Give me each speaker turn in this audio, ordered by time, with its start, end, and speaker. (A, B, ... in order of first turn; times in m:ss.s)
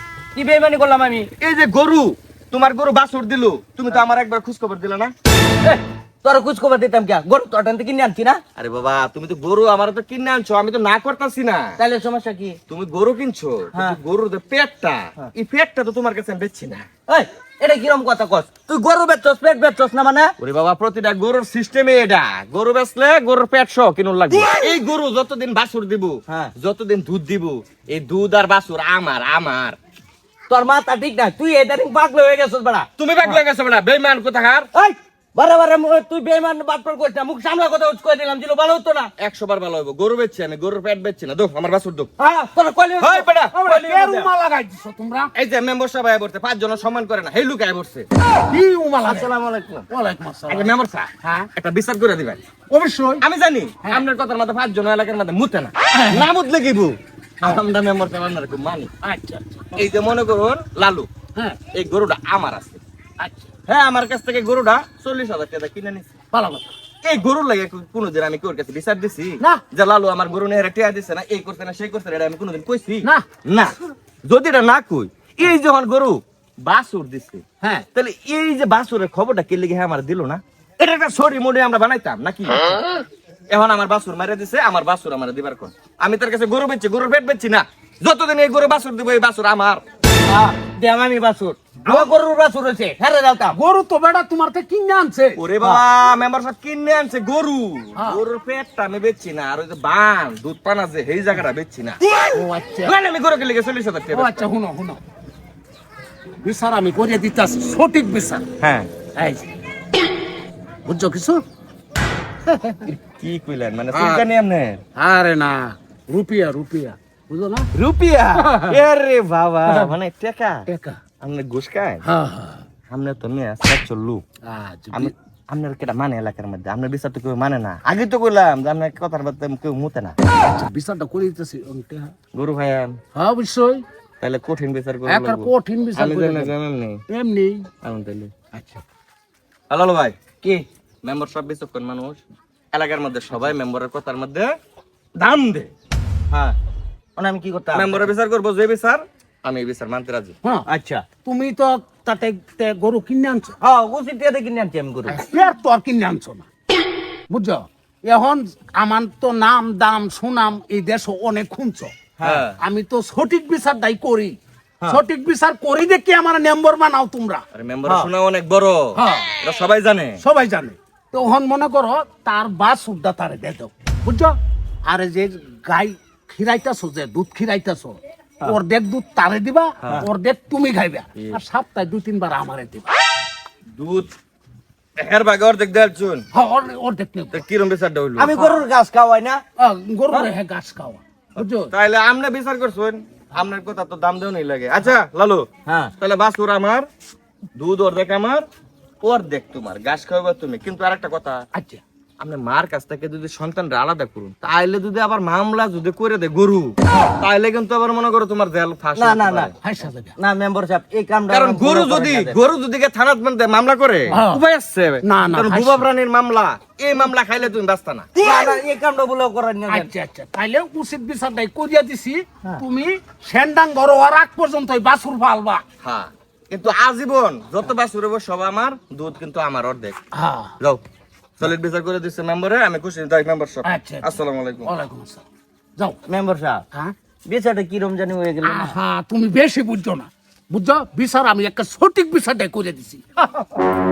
0:00.4-0:01.3 A
0:01.4-0:05.1 B
0:05.6-0:08.4 A
0:08.6-0:11.7 B
0:11.8-0:12.6 A
0:12.7-0:16.9 B
0:13.7-0:14.0 A
0:17.1-0:20.3 A
0:20.4-0:29.8 B
0:24.3-0:24.7 A
0:30.5-0:33.4 A
0:33.0-0:34.7 B
0:34.7-0:39.1 A
0:39.2-0:42.1 B
0:42.2-0:43.3 A
0:43.0-0:44.3 B
0:43.5-0:45.3 C
0:45.4-0:48.1 B
0:48.5-0:49.3 C
0:49.0-0:49.8 A
0:49.9-0:51.5 C
0:50.5-0:52.4 B
0:52.7-0:53.2 C
0:53.2-0:58.9 B
0:55.9-0:56.3 C
0:59.0-0:59.8 C
0:59.7-1:01.1 B
1:01.7-1:02.8 B
1:03.2-1:03.5 C
1:03.7-1:06.1 B
1:06.3-1:06.7 C
1:07.0-1:22.8 B
1:17.6-1:17.9 C
1:23.5-1:29.8 B
1:30.3-1:33.6 A
1:33.5-1:35.4 C
1:35.4-1:42.0 B
1:38.0-1:38.2 C
1:42.3-1:43.0 C
1:42.8-1:44.5 B
1:44.1-1:45.0 C
1:46.4-1:48.5 C
1:48.6-1:48.9 B
1:49.2-1:49.4 C
1:50.8-1:51.4 C
1:52.5-1:52.9 C
1:52.9-1:54.8 B
1:55.0-1:57.7 C
1:57.8-1:58.5 A
1:58.4-2:00.6 B
1:58.4-1:58.8 C
1:59.7-1:59.9 C
2:00.7-2:01.0 C
2:01.2-2:02.0 B
2:02.0-2:02.6 C
2:02.9-2:04.2 B
2:04.4-2:05.1 C
2:04.9-2:10.2 B
2:10.5-2:12.1 C
2:12.3-2:13.0 B
2:13.2-2:13.8 C
2:14.2-2:17.0 B
2:15.1-2:16.6 C
2:17.1-2:17.7 C
2:17.8-2:18.3 B
2:18.5-2:18.8 C
2:19.7-2:20.2 B
2:21.0-2:22.2 B
2:22.7-2:24.5 B
2:25.2-2:25.7 B
2:26.3-2:26.6 A
2:27.2-2:28.2 A
2:27.7-2:30.4 B
2:30.7-2:31.1 A
2:31.2-2:33.6 C
2:33.6-2:35.2 A
2:35.1-2:36.5 C
2:37.3-2:41.9 C
2:42.2-2:42.4 A
2:42.2-2:42.6 B
2:42.6-2:44.4 C
2:44.9-2:47.4 C
2:47.5-2:50.2 B
2:47.8-2:48.1 A
2:49.0-2:49.4 C
2:50.2-3:02.9 C
2:59.8-3:00.1 B
3:03.8-3:04.1 B
3:05.0-3:06.2 B
3:06.3-3:07.4 C
3:07.3-3:08.5 B
3:08.2-3:09.4 A
3:09.6-3:11.7 C
3:11.4-3:15.5 B
3:15.7-3:15.9 A
3:16.0-3:16.9 B
3:17.6-3:18.4 B
3:19.0-3:21.4 B
3:21.5-3:21.8 C
3:22.2-3:29.6 B
3:29.0-3:29.5 A
3:29.6-3:30.2 C
3:30.2-3:32.4 A
3:31.3-3:38.1 B
3:34.1-3:34.4 C
3:35.0-3:35.8 C
3:38.2-3:39.9 A
3:39.7-3:45.6 C
3:45.8-3:50.0 B
3:50.2-3:50.5 C
3:51.4-3:54.7 B
3:53.6-3:55.2 C
3:56.1-3:56.6 A
3:57.3-3:58.8 A
3:58.4-4:03.1 C